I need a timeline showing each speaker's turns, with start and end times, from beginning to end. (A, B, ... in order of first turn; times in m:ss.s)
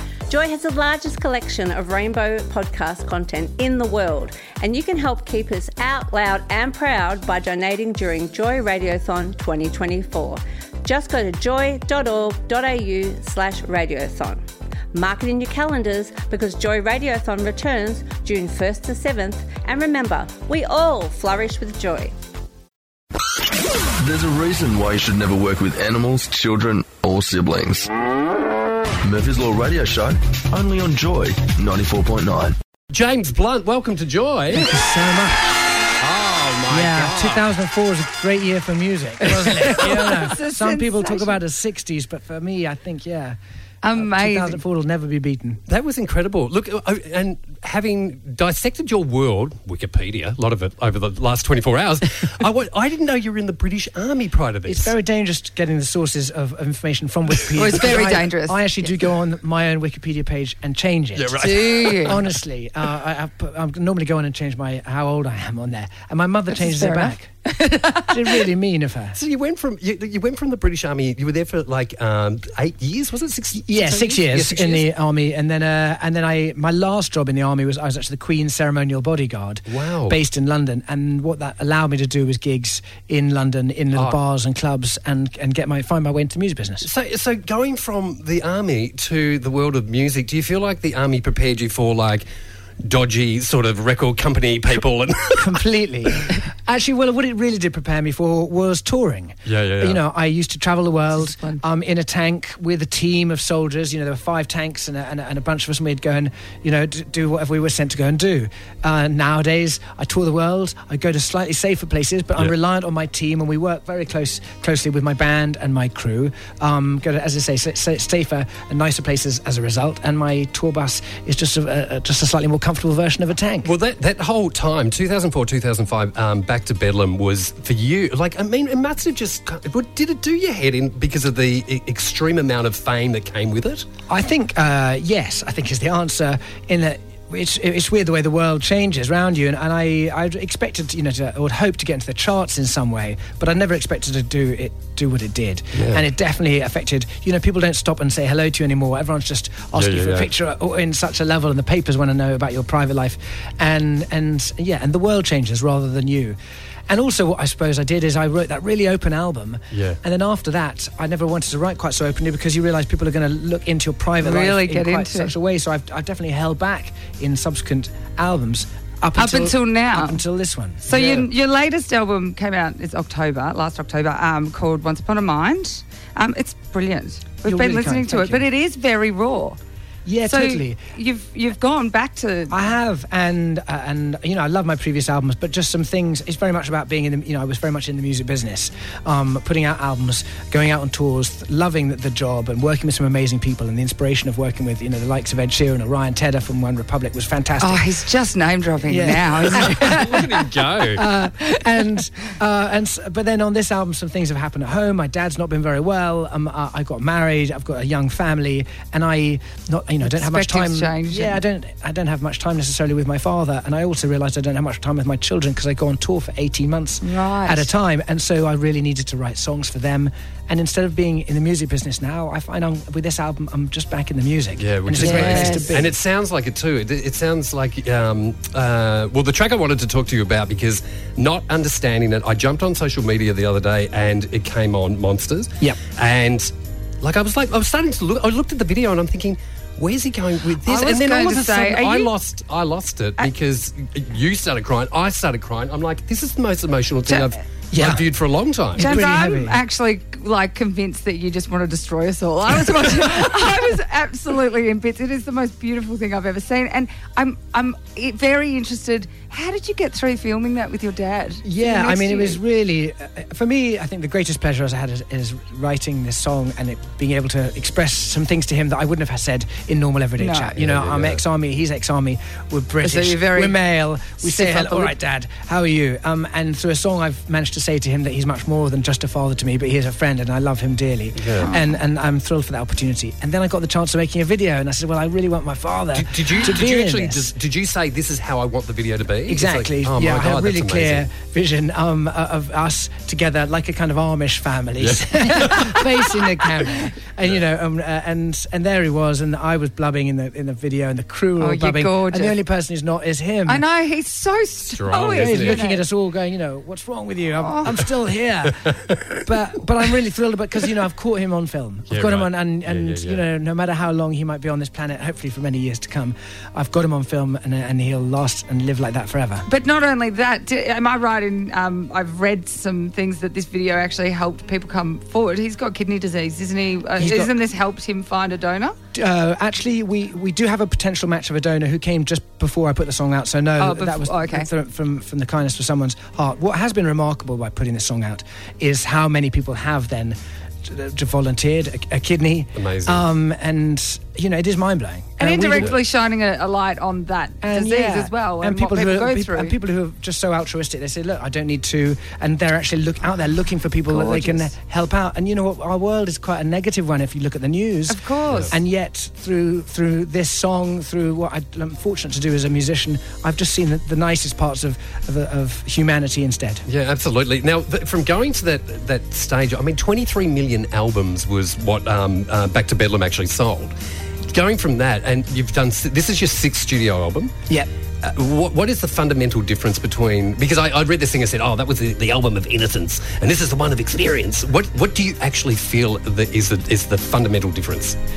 0:00.3-0:14.4 A
0:14.9-0:22.1 A
0:24.0-0:27.9 B
0:29.0-0:32.6 B
0:32.9-0:34.7 C
0:34.5-0:35.5 D
0:36.0-0:37.5 C
0:36.7-0:43.4 D
0:39.6-0:40.2 C
0:39.6-0:41.4 E
0:43.8-0:44.6 E
0:43.9-0:45.6 D
0:45.7-0:54.9 C
0:54.7-1:07.3 D
0:57.6-0:58.8 E
1:01.2-1:02.3 C
1:01.4-1:02.2 E
1:06.5-1:08.4 E
1:08.1-1:09.2 D
1:09.1-1:14.9 C
1:13.6-1:26.9 D
1:19.7-1:20.2 C
1:26.8-1:32.2 C
1:32.8-1:35.6 C
1:35.4-2:03.7 D
1:39.4-1:40.0 C
1:41.2-1:41.6 E
2:03.6-2:13.8 C
2:14.1-2:36.4 D
2:25.7-2:26.0 C
2:29.7-2:30.3 C
2:36.9-2:51.3 D
2:39.7-2:40.0 C
2:44.2-2:45.4 E
2:49.1-2:50.2 E
2:50.8-2:59.6 E
2:57.4-2:58.4 D
3:00.0-3:00.8 D
3:00.2-3:02.6 E
3:02.5-3:17.8 D
3:17.6-3:20.4 E
3:18.9-3:20.3 D
3:19.3-3:21.0 C
3:20.9-3:45.9 D
3:30.0-3:31.4 E
3:37.0-3:37.7 E
3:44.6-3:56.5 C
3:45.0-3:45.8 E
3:57.0-4:09.0 C
4:00.6-4:02.1 E
4:07.0-4:07.3 E
4:07.7-4:08.1 D
4:08.8-4:09.6 D
4:08.8-4:22.4 E
4:21.4-4:47.3 D
4:30.2-4:30.6 E
4:30.6-4:31.2 C
4:32.8-4:33.6 E
4:34.2-4:34.9 E
4:41.2-4:41.5 C
4:41.4-4:41.7 E
4:45.9-4:51.1 C
4:49.3-5:03.6 D
4:54.8-4:56.4 C
5:01.4-5:02.4 E
5:03.5-5:05.8 E
5:04.7-5:05.6 C
5:05.2-5:19.4 D
5:07.3-5:07.7 E
5:08.8-5:09.1 C
5:11.9-5:13.2 C
5:19.4-5:28.8 E
5:27.0-5:27.3 D
5:28.9-5:45.8 D
5:33.6-5:34.5 E
5:42.6-5:43.0 C
5:45.2-5:49.6 E
5:47.4-6:06.6 D
5:53.9-5:54.5 E
5:57.9-5:58.5 E
5:58.3-5:58.5 C
6:06.7-6:13.7 C
6:14.3-6:17.3 C
6:18.0-6:28.0 C